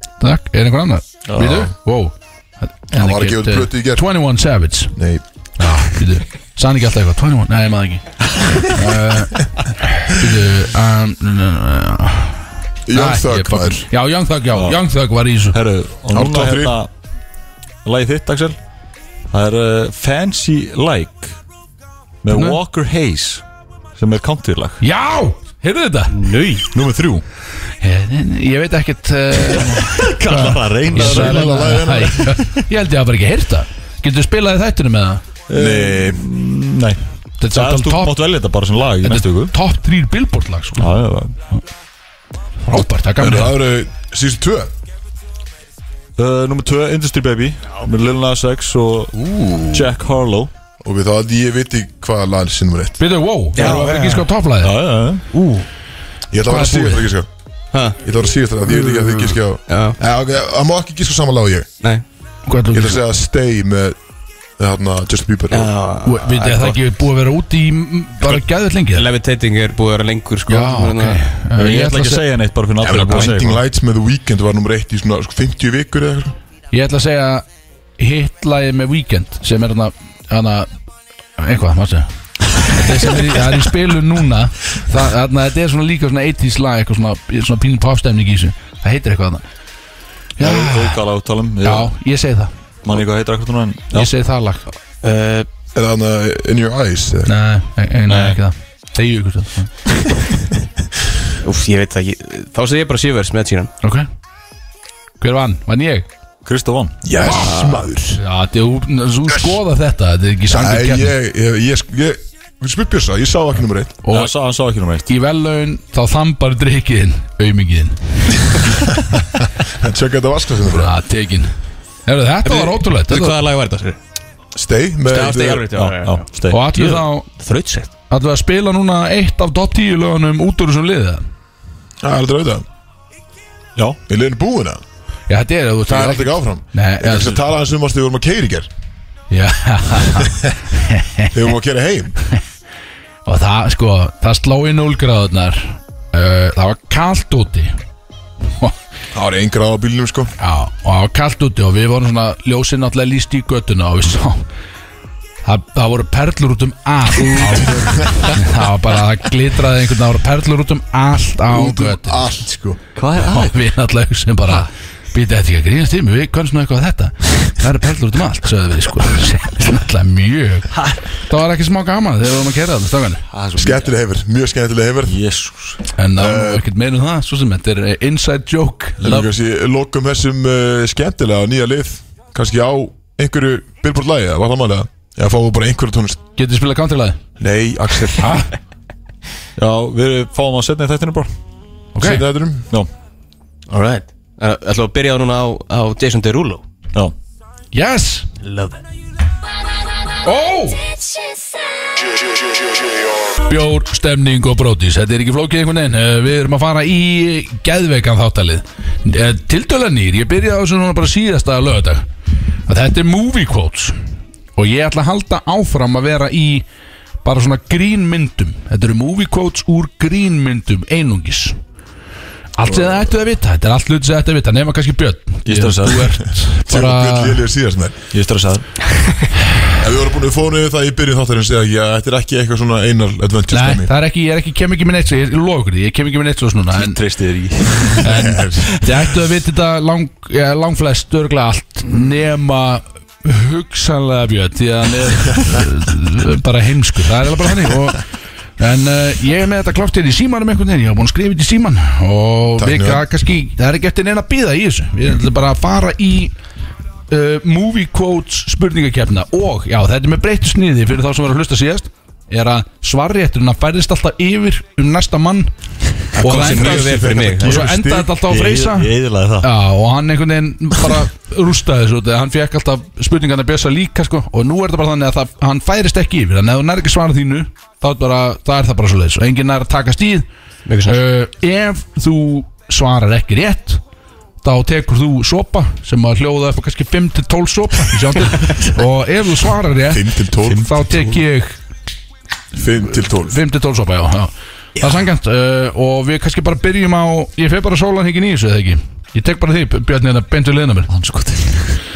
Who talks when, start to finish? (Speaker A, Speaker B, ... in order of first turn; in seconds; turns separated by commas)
Speaker A: 0.2-5.0, Speaker B: 1.3-1.7, Speaker C: 2.9-4.0, Speaker C: 5.0-5.2, Speaker A: 5.6-15.6, Speaker C: 12.9-13.9, Speaker B: 14.5-14.8, Speaker B: 15.5-16.9, Speaker C: 16.1-16.8, Speaker B: 17.8-18.6, Speaker B: 19.3-21.4, Speaker B: 22.2-23.4, Speaker A: 22.3-22.6, Speaker B: 24.0-24.8, Speaker A: 24.8-26.3, Speaker D: 26.1-26.7, Speaker B: 26.7-27.2, Speaker A: 27.8-35.2, Speaker B: 29.5-32.6, Speaker C: 30.9-32.4, Speaker B: 35.5-37.0, Speaker C: 35.5-36.3, Speaker A: 37.4-38.2, Speaker B: 37.5-39.5, Speaker A: 39.0-40.9, Speaker B: 40.8-41.4, Speaker A: 42.7-43.6, Speaker C: 43.2-44.7, Speaker B: 46.2-49.1, Speaker D: 49.2-49.8, Speaker B: 49.7-50.5, Speaker C: 50.8-53.0, Speaker A: 53.0-54.7, Speaker D: 53.5-54.3, Speaker B: 54.6-55.2, Speaker D: 55.3-55.7, Speaker C: 56.3-57.3, Speaker A: 56.4-57.1, Speaker D: 57.7-58.0, Speaker C: 58.0-61.7, Speaker D: 58.7-60.0, Speaker A: 62.5-63.0, Speaker C: 62.7-64.0, Speaker C: 64.6-65.7, Speaker D: 65.5-66.8, Speaker A: 66.0-69.1, Speaker D: 68.9-71.2, Speaker A: 70.5-72.2, Speaker B: 71.6-73.6, Speaker C: 72.8-76.3, Speaker A: 76.7-77.5, Speaker A: 78.0-80.7, Speaker A: 81.4-89.4, Speaker A: 90.4-91.0, Speaker B: 90.4-91.9, Speaker A: 91.6-92.5, Speaker B: 92.8-94.1, Speaker A: 93.9-94.7, Speaker D: 95.0-95.5, Speaker C: 95.8-97.3, Speaker A: 97.3-99.7, Speaker B: 98.1-98.4, Speaker D: 101.4-103.7, Speaker A: 105.2-106.1, Speaker B: 106.5-107.0, Speaker C: 107.0-108.2, Speaker A: 107.2-111.1, Speaker C: 110.5-114.0, Speaker A: 114.0-114.3, Speaker B: 114.1-115.1, Speaker A: 115.1-118.9, Speaker C: 119.7-120.9, Speaker A: 120.7-121.5, Speaker A: 122.1-123.4, Speaker D: 122.5-124.0, Speaker C: 124.5-125.7, Speaker D: 125.1-127.9, Speaker B: 125.7-126.7, Speaker A: 126.5-127.3, Speaker A: 128.1-131.2, Speaker C: 132.0-132.7, Speaker C: 134.1-134.8, Speaker A: 135.3-137.4, Speaker C: 135.9-138.7, Speaker A: 139.3-141.3, Speaker C: 140.2-140.5, Speaker C: 141.3-142.2, Speaker A: 143.3-147.8, Speaker C: 149.1-150.3, Speaker A: 150.4-154.5, Speaker A: 155.4-162.3, Speaker C: 157.4-158.3, Speaker C: 161.5-162.8, Speaker B: 163.0-163.6, Speaker A: 163.2-173.2, Speaker B: 173.3-173.9, Speaker C: 173.6-175.2, Speaker B: 175.1-175.8, Speaker A: 176.0-179.3, Speaker C: 176.2-176.7, Speaker C: 179.0-186.2, Speaker A: 186.4-187.2, Speaker C: 187.4-188.4, Speaker A: 188.2-188.5, Speaker B: 189.6-191.3, Speaker A: 191.9-192.3, Speaker C: 192.0-192.7, Speaker D: 193.7-196.6, Speaker A: 197.7-198.3, Speaker D: 198.4-198.8, Speaker A: 200.2-200.8, Speaker A: 203.4-212.1, Speaker A: 212.7-214.0, Speaker A: 214.6-216.7, Speaker A: 217.2-221.6, Speaker A: 222.6-227.4, Speaker C: 222.6-223.1, Speaker B: 225.5-226.2, Speaker C: 226.4-228.0, Speaker B: 228.1-228.7, Speaker C: 229.8-233.9, Speaker A: 233.5-237.0, Speaker B: 236.8-238.0, Speaker C: 238.0-238.9, Speaker A: 238.0-248.0, Speaker A: 248.6-256.3, Speaker C: 252.6-253.1, Speaker A: 257.1-265.5, Speaker A: 266.1-280.3, Speaker C: 266.1-268.2, Speaker D: 266.2-267.6, Speaker B: 268.3-269.5, Speaker D: 280.7-281.0, Speaker A: 280.9-283.8, Speaker A: 284.4-291.6, Speaker C: 289.9-290.8, Speaker C: 292.5-293.4, Speaker A: 292.9-300.9, Speaker B: 300.9-301.8